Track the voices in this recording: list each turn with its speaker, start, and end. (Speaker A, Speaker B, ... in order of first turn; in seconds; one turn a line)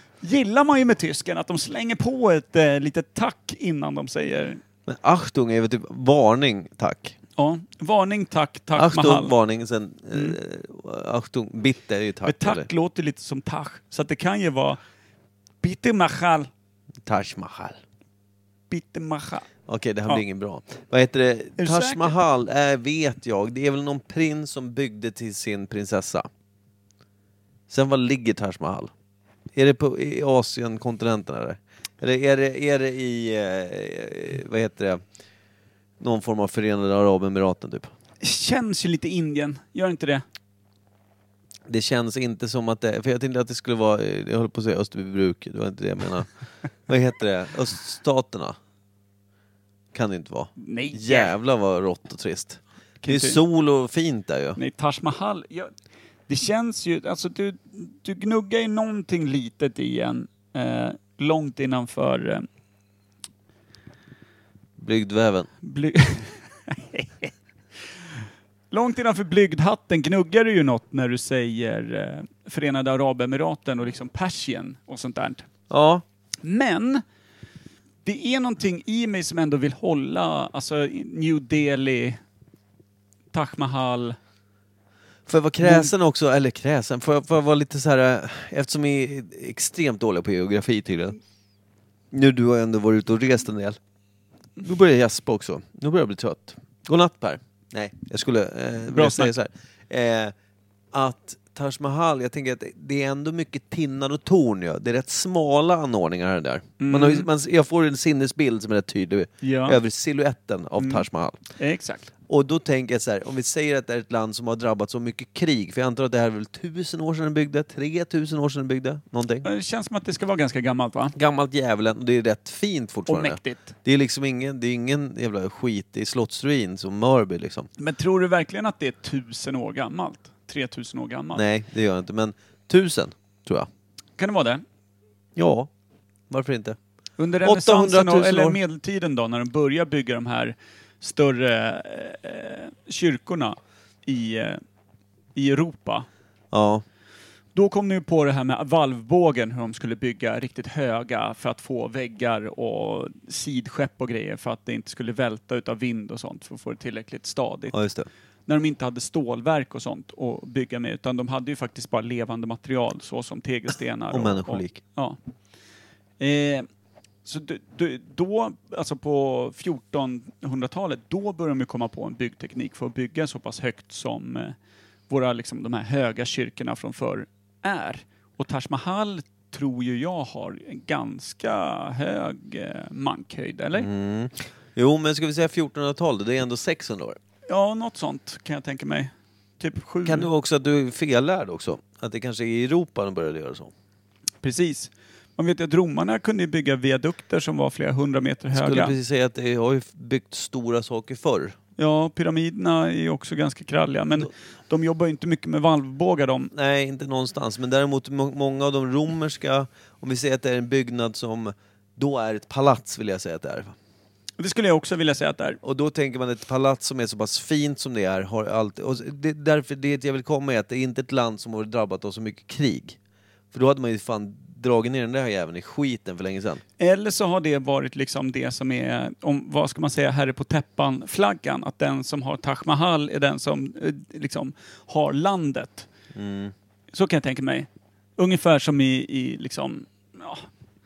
Speaker A: 0.2-4.6
Speaker B: 4.9-7.2
Speaker A: 7.4-9.3
Speaker B: 8.7-12.7
Speaker A: 12.2-14.8
Speaker A: 15.6-16.5
Speaker B: 17.0-17.8
Speaker A: 18.7-19.5
Speaker B: 19.7-26.3
Speaker A: 21.6-22.1
Speaker B: 27.7-28.9
Speaker B: 29.5-35.0
Speaker B: 36.0-37.9
Speaker A: 38.2-40.2
Speaker B: 41.7-46.3
Speaker B: 46.9-48.6
Speaker B: 49.9-54.6
Speaker A: 50.6-51.3
Speaker A: 53.0-53.4
Speaker A: 54.5-55.7
Speaker A: 56.3-62.5
Speaker B: 64.8-65.5
Speaker A: 65.6-67.3
Speaker A: 68.7-75.5
Speaker B: 75.7-76.0
Speaker A: 76.4-77.0
Speaker A: 78.0-82.2
Speaker A: 83.3-84.2
Speaker B: 85.3-91.2
Speaker A: 85.6-85.9
Speaker B: 92.1-93.8
Speaker B: 94.6-100.3
Speaker A: 98.9-99.3
Speaker B: 100.9-111.4
Speaker A: 106.8-107.3
Speaker A: 109.4-109.8
Speaker A: 110.8-111.0
Speaker A: 111.6-112.1
Speaker B: 112.3-119.5
Speaker A: 119.4-121.1
Speaker B: 121.1-127.7
Speaker A: 123.1-123.7
Speaker A: 127.8-131.4
Speaker B: 131.3-133.7
Speaker A: 134.2-134.6
Speaker B: 135.3-135.7
Speaker B: 136.3-136.8
Speaker A: 137.2-144.6
Speaker B: 137.4-138.6
Speaker A: 145.3-146.1
Speaker B: 146.5-146.8
Speaker A: 147.5-157.8
Speaker B: 157.7-158.1
Speaker A: 158.5-165.2
Speaker B: 164.1-164.8
Speaker A: 166.2-166.7
Speaker A: 167.2-174.5
Speaker A: 175.1-183.9
Speaker B: 183.7-187.2
Speaker A: 187.5-190.3
Speaker B: 190.1-193.7
Speaker A: 194.4-198.9
Speaker B: 198.5-201.6
Speaker A: 201.8-206.5
Speaker B: 206.5-213.7
Speaker A: 214.4-215.6
Speaker B: 215.6-223.0
Speaker B: 223.5-226.6
Speaker A: 226.8-235.9
Speaker B: 236.1-236.5
Speaker A: 236.9-240.5